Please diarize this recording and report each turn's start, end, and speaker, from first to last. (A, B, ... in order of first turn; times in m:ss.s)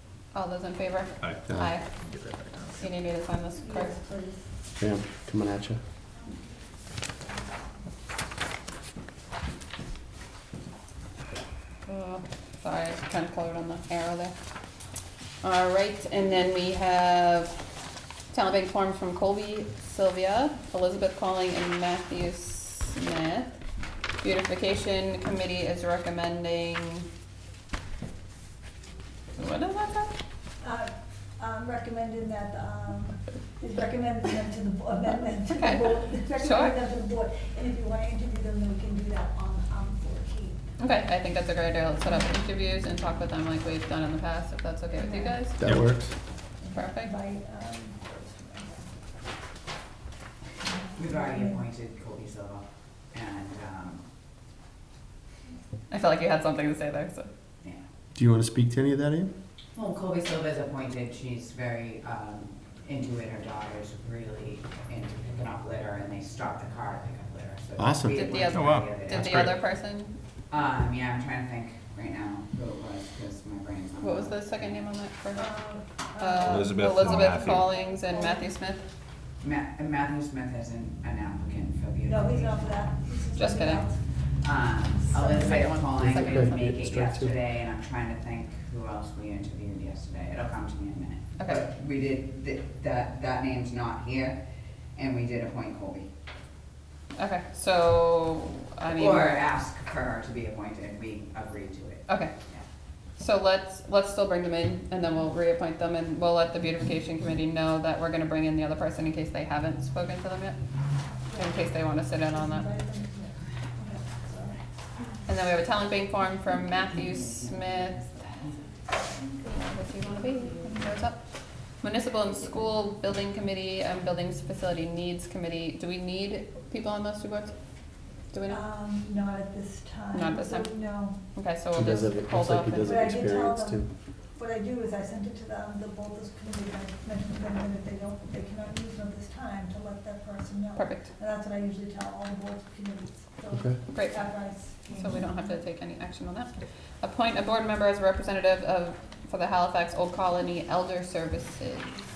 0:00.3-0:01.9 A
0:01.2-0:02.9 B
0:01.5-0:01.7 C
0:02.7-0:04.0 A
0:03.6-0:04.5 D
0:04.8-0:05.8 C
0:11.8-0:14.3 A
0:15.4-0:17.6 A
0:18.3-0:23.6 A
0:24.2-0:27.1 A
0:29.4-0:30.1 A
0:30.6-0:40.7 D
0:35.5-0:36.8 A
0:40.8-0:45.6 A
0:45.0-0:45.4 D
0:45.6-0:46.1 C
0:46.6-0:48.9 D
0:46.7-0:47.1 A
0:50.6-0:51.6 D
0:50.9-0:54.0 E
0:55.9-0:57.3 A
0:58.1-0:59.3 C
0:59.7-1:09.5 E
1:07.8-1:08.2 C
1:08.1-1:10.1 A
1:08.5-1:09.6 B
1:10.5-1:14.9 E
1:14.0-1:15.6 A
1:15.4-1:18.5 D
1:16.1-1:18.8 A
1:16.4-1:17.7 B
1:19.4-1:22.9 E
1:22.0-1:24.1 D
1:23.4-1:23.9 A
1:24.4-1:34.4 E
1:24.8-1:25.8 D
1:25.6-1:26.8 A
1:26.0-1:27.4 C
1:31.4-1:31.6 A
1:34.9-1:36.1 E
1:37.2-1:39.4 A
1:38.9-1:42.6 E
1:42.1-1:42.3 A
1:43.2-1:50.6 A
1:51.2-1:51.7 D
1:51.2-1:52.7 A
1:52.3-1:54.7 D
1:55.2-1:58.4 A
1:56.9-1:59.3 E
1:59.4-2:08.6 A
2:08.5-2:11.2 D
2:10.1-2:13.2 A
2:11.7-2:13.9 C
2:12.8-2:25.4 D
2:20.8-2:21.0 A
2:23.5-2:23.8 C
2:23.9-2:32.0 A